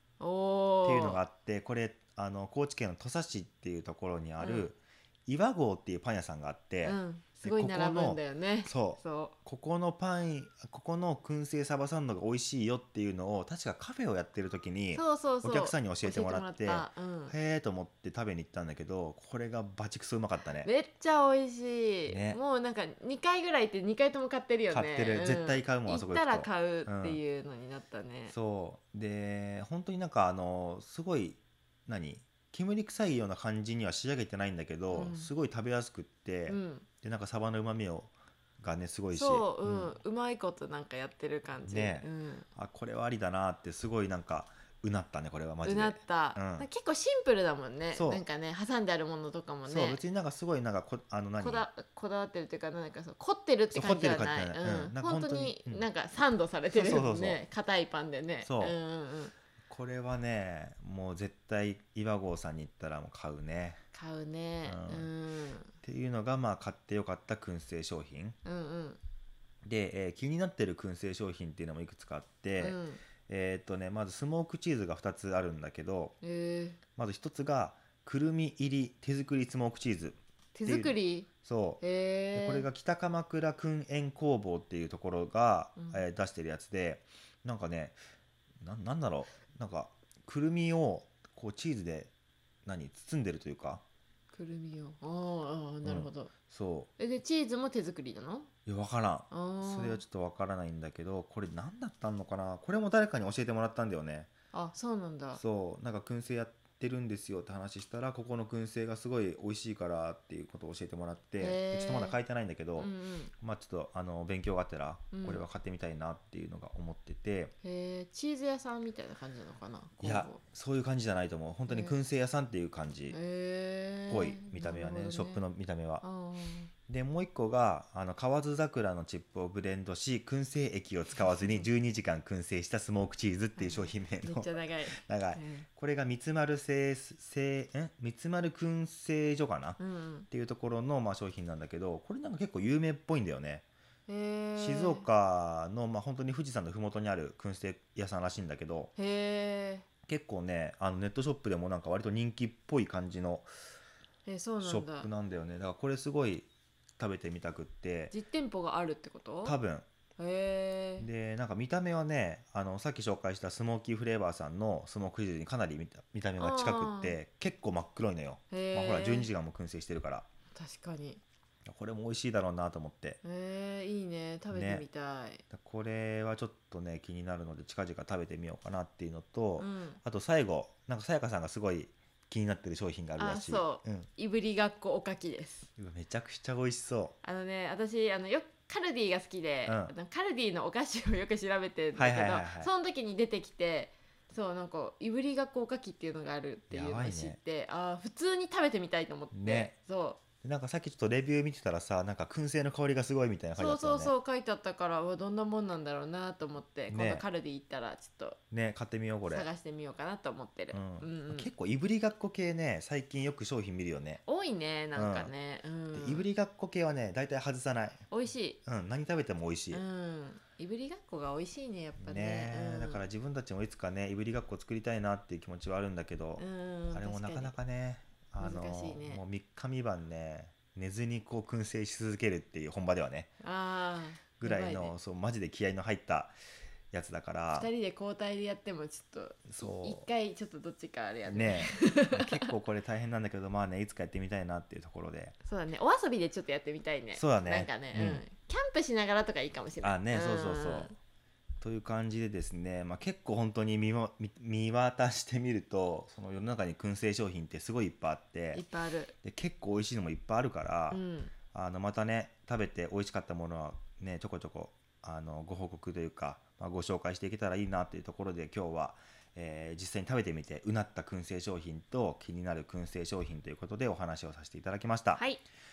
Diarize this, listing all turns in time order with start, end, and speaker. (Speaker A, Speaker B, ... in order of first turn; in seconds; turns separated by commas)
Speaker A: 0.2-1.2, Speaker B: 0.8-20.7, Speaker A: 4.4-4.7, Speaker A: 6.8-9.4, Speaker A: 14.9-17.4, Speaker A: 20.6-28.4, Speaker B: 22.1-22.4, Speaker B: 24.7-27.2, Speaker B: 28.3-39.9, Speaker A: 34.9-35.3, Speaker A: 36.5-36.9, Speaker A: 39.1-42.5, Speaker B: 41.6-46.7, Speaker A: 45.6-50.0, Speaker B: 47.9-48.2, Speaker B: 49.7-51.7, Speaker A: 51.4-59.3, Speaker B: 53.7-55.9, Speaker B: 56.7-57.4, Speaker B: 58.4-58.8, Speaker B: 59.7-63.8, Speaker A: 63.9-65.7, Speaker B: 64.7-65.1, Speaker B: 65.8-68.4, Speaker A: 68.4-69.0, Speaker B: 69.6-72.8, Speaker A: 72.6-73.0, Speaker B: 73.3-76.2, Speaker A: 76.2-76.8, Speaker B: 77.0-81.8, Speaker A: 80.5-81.3, Speaker A: 81.8-82.7, Speaker B: 82.3-88.0, Speaker A: 85.8-86.0, Speaker B: 88.6-92.1, Speaker B: 92.7-93.8, Speaker A: 94.3-96.3, Speaker B: 95.8-96.9, Speaker A: 97.0-98.5, Speaker B: 98.7-104.3, Speaker A: 99.3-100.0, Speaker A: 104.5-105.4, Speaker B: 105.4-112.9, Speaker A: 111.4-112.2, Speaker A: 112.8-113.3, Speaker B: 113.4-117.5, Speaker A: 115.1-115.4, Speaker A: 117.6-120.4, Speaker B: 120.0-123.2, Speaker A: 121.7-122.0, Speaker A: 123.1-125.4, Speaker B: 124.1-126.0, Speaker A: 126.0-126.7, Speaker B: 126.9-139.8, Speaker A: 131.2-131.7, Speaker A: 133.6-135.7, Speaker A: 139.8-140.3, Speaker B: 140.3-143.7, Speaker A: 144.1-145.1, Speaker B: 144.6-148.9, Speaker A: 149.0-149.8, Speaker B: 150.1-153.5, Speaker A: 154.2-155.1, Speaker B: 154.6-158.1, Speaker A: 158.1-159.6, Speaker B: 159.4-159.8, Speaker A: 160.2-161.1, Speaker B: 161.0-170.3, Speaker A: 166.4-167.2, Speaker A: 168.5-169.3, Speaker A: 170.5-171.2, Speaker B: 171.7-173.2, Speaker A: 173.2-175.4, Speaker B: 174.5-174.8, Speaker B: 175.5-184.1, Speaker A: 179.6-180.0, Speaker A: 183.2-185.7, Speaker B: 185.8-187.2, Speaker A: 187.2-200.2, Speaker B: 189.7-189.9, Speaker B: 191.9-192.7, Speaker B: 196.7-197.4, Speaker B: 199.3-199.7, Speaker B: 200.4-204.1, Speaker A: 203.6-208.4, Speaker B: 206.9-207.2, Speaker B: 208.5-209.5, Speaker A: 209.3-211.5, Speaker B: 210.7-214.2, Speaker A: 214.3-216.3, Speaker B: 214.9-215.3, Speaker B: 215.9-218.1, Speaker A: 218.1-218.6, Speaker B: 218.7-219.8, Speaker A: 219.7-223.1, Speaker B: 222.0-233.3, Speaker A: 226.4-227.6, Speaker A: 228.4-229.2, Speaker A: 233.4-234.9, Speaker B: 234.4-236.3, Speaker B: 236.9-237.7, Speaker A: 237.5-242.5, Speaker B: 239.5-240.1, Speaker B: 241.3-245.4, Speaker A: 245.4-251.0, Speaker B: 247.2-248.2, Speaker B: 249.8-250.9, Speaker B: 251.6-258.6, Speaker A: 258.6-259.1, Speaker B: 259.2-261.0, Speaker A: 260.9-261.3, Speaker B: 261.5-275.3, Speaker A: 275.1-275.4